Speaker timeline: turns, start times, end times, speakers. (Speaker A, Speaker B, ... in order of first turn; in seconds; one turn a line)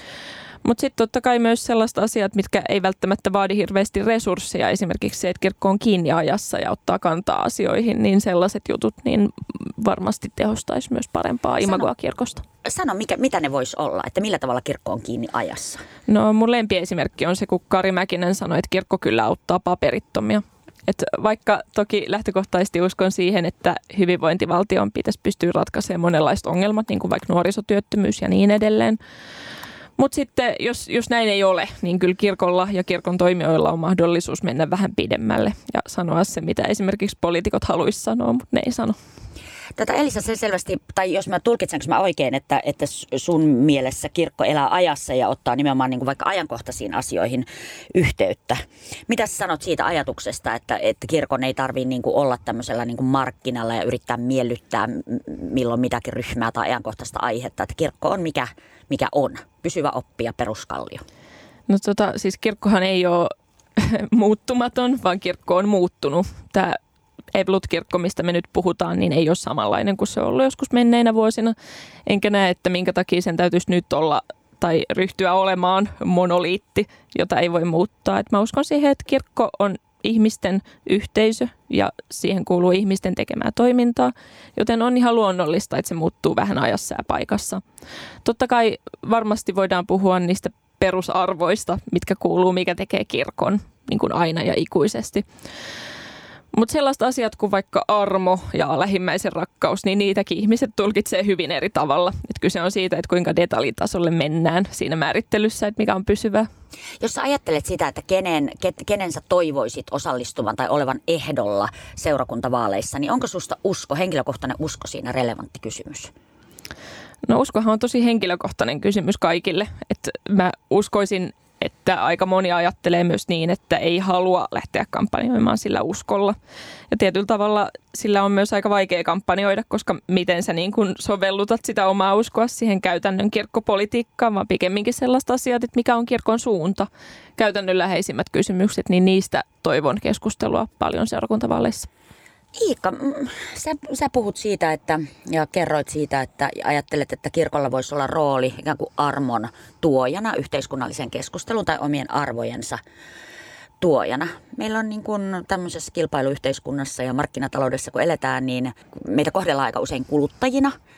Speaker A: 0.6-12.4
Speaker B: 12.7-15.8
Speaker A: 16.1-29.0
Speaker A: 30.0-39.0
Speaker B: 39.8-61.0
Speaker A: 61.7-66.8
Speaker A: 67.3-71.5
Speaker A: 72.1-87.6
Speaker A: 88.2-95.2
Speaker A: 96.5-106.5
Speaker B: 107.0-116.1
Speaker A: 117.2-126.4
Speaker A: 126.9-141.9
Speaker B: 142.6-152.8
Speaker B: 153.8-160.7